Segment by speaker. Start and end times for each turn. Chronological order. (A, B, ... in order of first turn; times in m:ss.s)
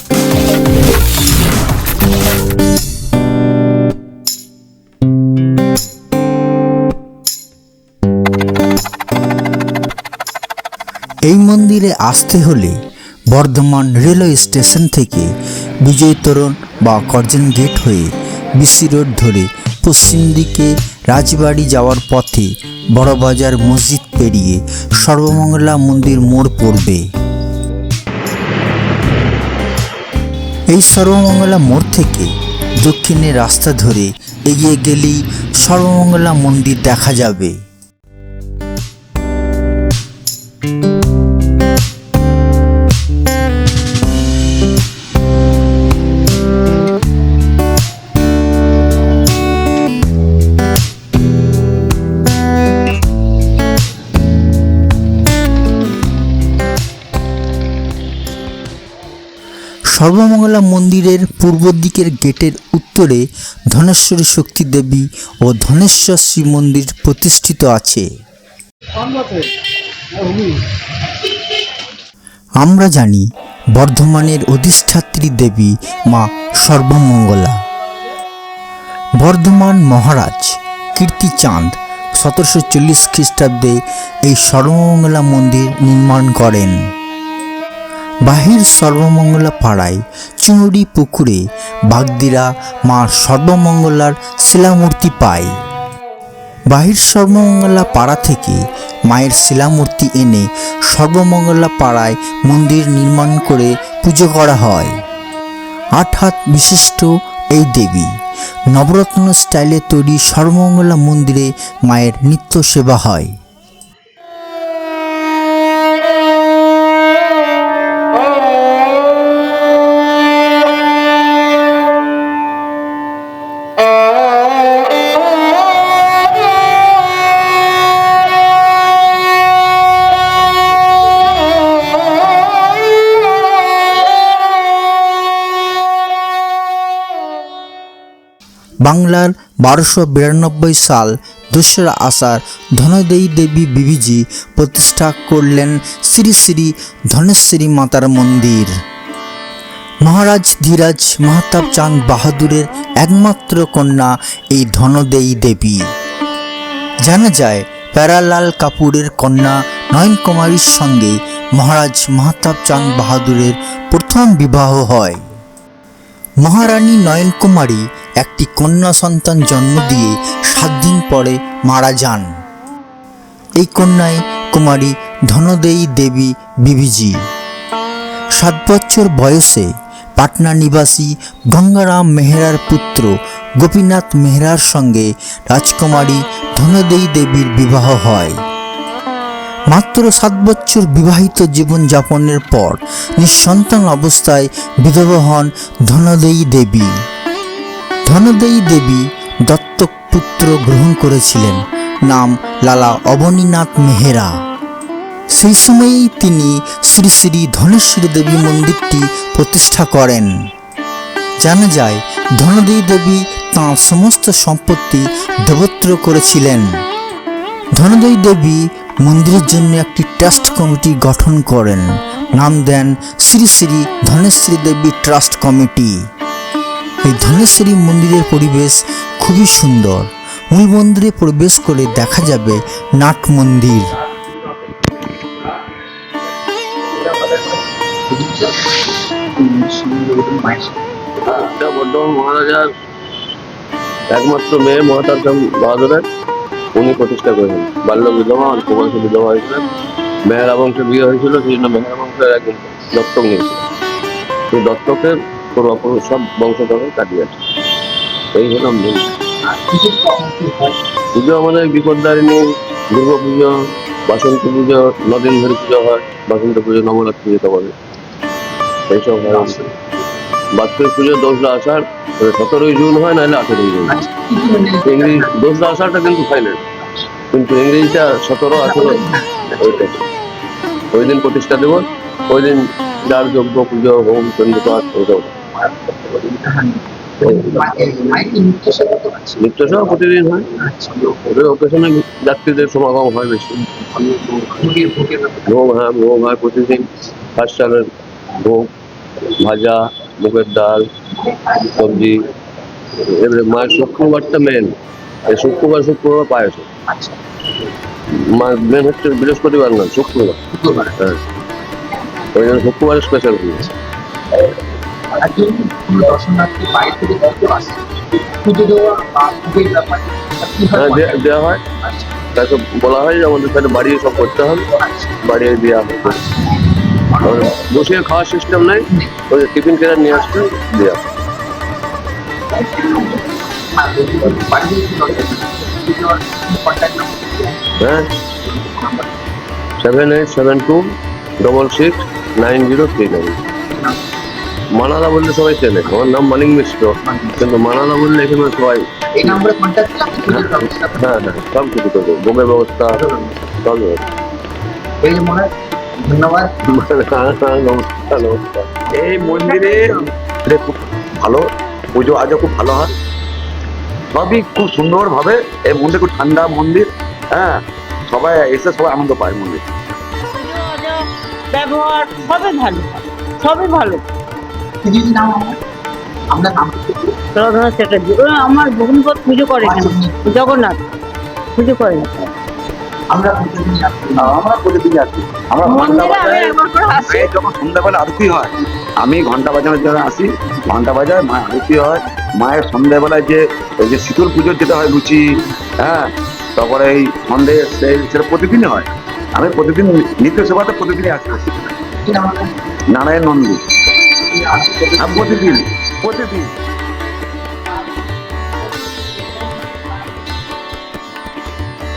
0:11.3-0:12.8 A
0:13.3-0:15.3 A
0:15.8-0:27.0 A
0:30.7-0:37.6 A
0:59.9-1:08.1 A
1:12.6-1:17.6 A
1:19.2-1:26.8 A
1:28.2-1:35.5 A
1:36.7-1:44.9 A
1:46.0-1:48.1 A
1:48.7-1:53.3 A
2:18.8-2:28.7 A
2:30.0-2:35.8 A
2:37.0-2:45.2 A
2:46.4-2:52.3 A
2:53.6-2:57.2 A
2:58.4-3:08.4 A
3:09.7-3:16.9 A
3:18.1-3:24.3 A
3:25.4-3:30.3 A
3:31.4-3:36.7 A
3:37.8-3:46.0 A
3:47.0-3:54.0 A
3:56.9-3:58.8 B
3:59.4-4:00.8 B
4:01.2-4:02.7 C
4:04.1-4:06.1 C
4:06.8-4:09.6 C
4:10.2-4:13.6 C
4:14.5-4:17.4 C
4:18.3-4:19.2 C
4:19.5-4:20.8 B
4:21.2-4:23.5 C
4:24.1-4:27.7 C
4:28.9-4:29.6 C
4:29.4-4:29.7 B
4:30.5-4:34.0 C
4:33.9-4:35.3 B
4:34.8-4:36.6 C
4:37.3-4:40.0 C
4:38.5-4:39.3 B
4:40.9-4:45.4 C
4:45.8-4:49.5 B
4:49.4-4:50.5 C
4:50.5-4:51.2 B
4:51.3-4:54.1 C
4:54.0-4:55.4 B
4:55.4-4:58.7 C
4:59.2-5:00.9 C
5:01.5-5:02.3 C
5:03.0-5:04.8 C
5:05.3-5:06.7 C
5:06.9-5:07.2 B
5:08.1-5:10.4 C
5:10.5-5:11.0 B
5:12.3-5:13.8 C
5:15.1-5:21.3 B
5:20.7-5:21.6 C
5:21.8-5:22.1 B
5:22.3-5:24.7 C
5:24.7-5:25.2 B
5:25.2-5:26.2 C
5:26.1-5:27.4 B
5:27.2-5:31.0 C
5:32.5-5:37.7 B
5:37.8-5:38.1 C
5:38.4-5:39.1 B
5:39.8-5:40.9 C
5:41.4-5:43.4 C
5:43.7-5:44.0 B
5:44.7-5:49.4 C
5:47.0-5:47.4 B
5:49.2-5:51.0 B
5:50.3-5:53.0 C
5:53.0-5:53.4 B
5:53.6-5:54.0 C
5:55.0-5:56.5 B
5:56.6-5:58.8 C
5:58.9-6:02.9 D
5:59.5-5:59.9 B
6:04.1-6:09.7 D
6:10.4-6:11.0 E
6:11.5-6:14.0 E
6:14.8-6:15.6 B
6:16.3-6:17.2 B
6:17.4-6:20.8 E
6:19.6-6:20.5 B
6:21.6-6:22.1 E
6:23.1-6:24.4 B
6:24.2-6:41.7 D
6:25.6-6:27.3 E
6:42.0-6:42.5 B
6:42.9-6:43.6 D
6:44.3-6:45.6 B
6:45.0-6:46.5 D